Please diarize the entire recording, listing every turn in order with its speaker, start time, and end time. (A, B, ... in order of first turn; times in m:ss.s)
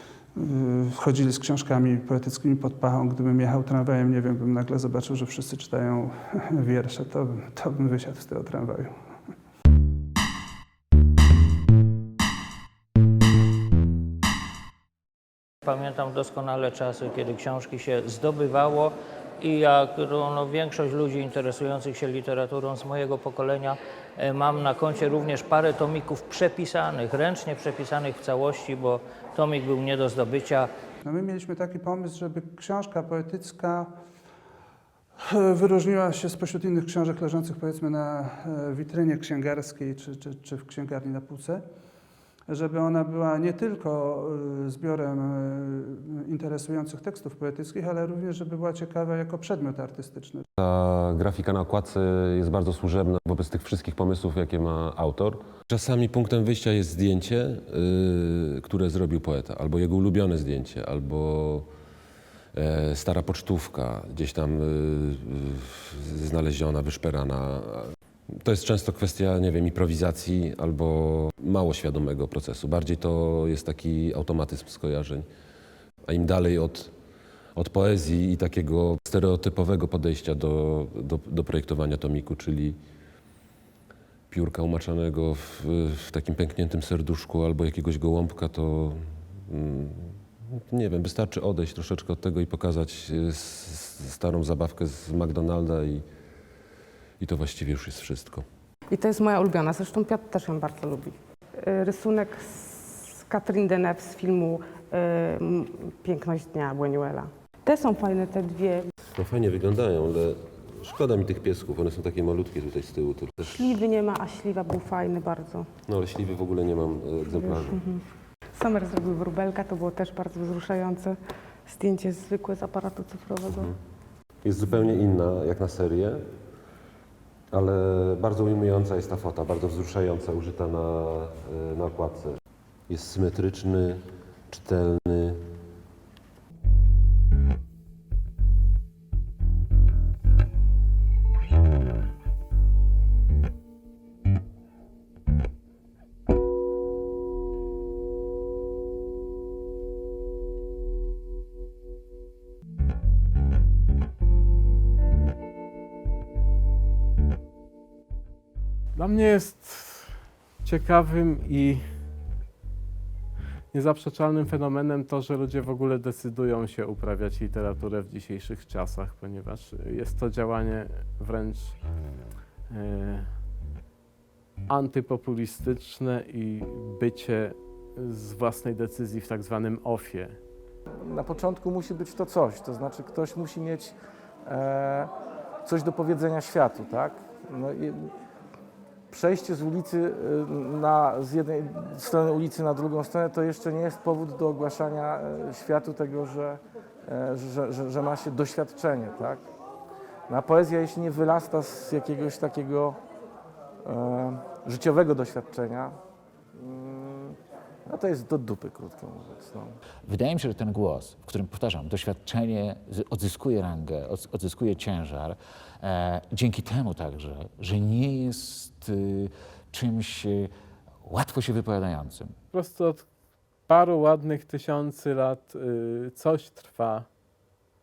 0:00.4-0:08.9 A
0:15.6-0:30.7 B
0:31.0-0:33.9 A
0:35.2-0:41.6 A
0:42.5-0:50.4 A
0:50.6-1:01.6 C
1:02.6-1:07.8 C
1:08.4-1:15.3 C
1:16.1-1:16.9 C
1:17.6-1:22.8 C
1:24.3-1:30.0 C
1:30.7-1:36.0 C
1:37.2-1:38.4 C
1:38.9-1:48.9 D
1:49.2-1:53.8 C
1:53.4-1:55.7 D
1:55.9-1:57.8 C
1:57.2-2:03.7 D
2:04.4-2:06.2 C
2:07.5-2:12.4 C
2:12.9-2:15.4 C
2:39.0-2:42.0 E
2:43.7-2:51.9 E
2:52.7-2:53.4 E
2:54.7-3:00.4 E
3:00.9-3:05.1 F
3:05.6-3:08.1 F
3:09.1-3:19.4 F
3:20.3-3:23.0 F
3:23.8-3:26.0 F
3:26.6-3:29.8 F
3:30.0-3:40.5 G
3:41.0-3:42.4 G
3:42.5-3:47.1 E